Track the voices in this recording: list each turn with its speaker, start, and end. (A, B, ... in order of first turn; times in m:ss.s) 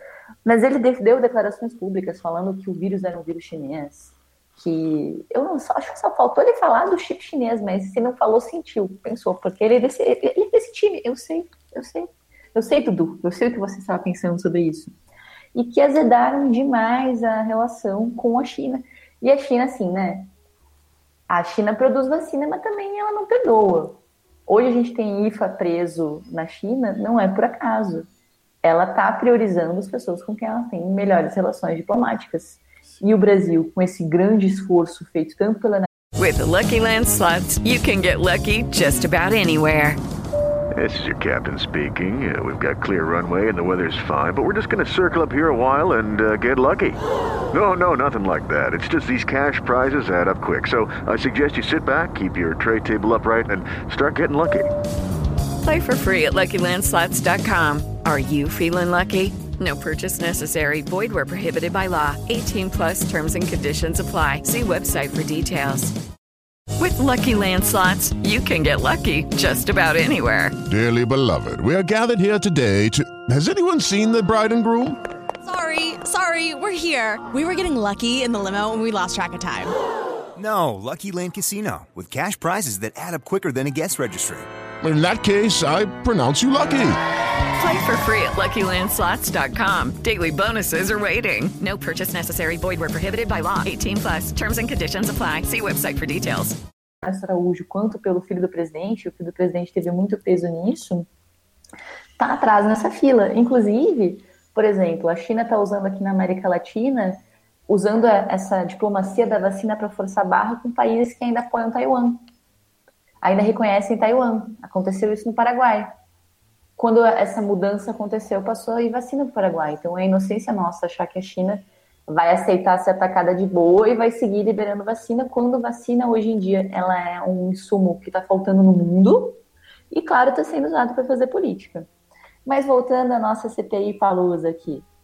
0:00.4-0:14.9 A
0:15.5-0:20.3 A
0:21.3-0:28.1 A
0:28.6-0:35.9 A
0:36.2-0:40.0 B
0:40.8-0:47.0 C
0:47.5-0:54.7 C
0:55.6-1:05.9 B
1:06.8-1:10.6 B
1:10.6-1:15.0 D
1:15.4-1:19.7 E
1:20.4-1:24.5 F
1:24.8-1:27.0 D
1:27.6-1:36.6 B
1:37.0-1:41.1 A
1:42.2-1:52.2 A
1:53.2-1:55.9 A
1:56.8-2:09.4 A
2:09.9-2:11.9 A
2:12.4-2:14.8 A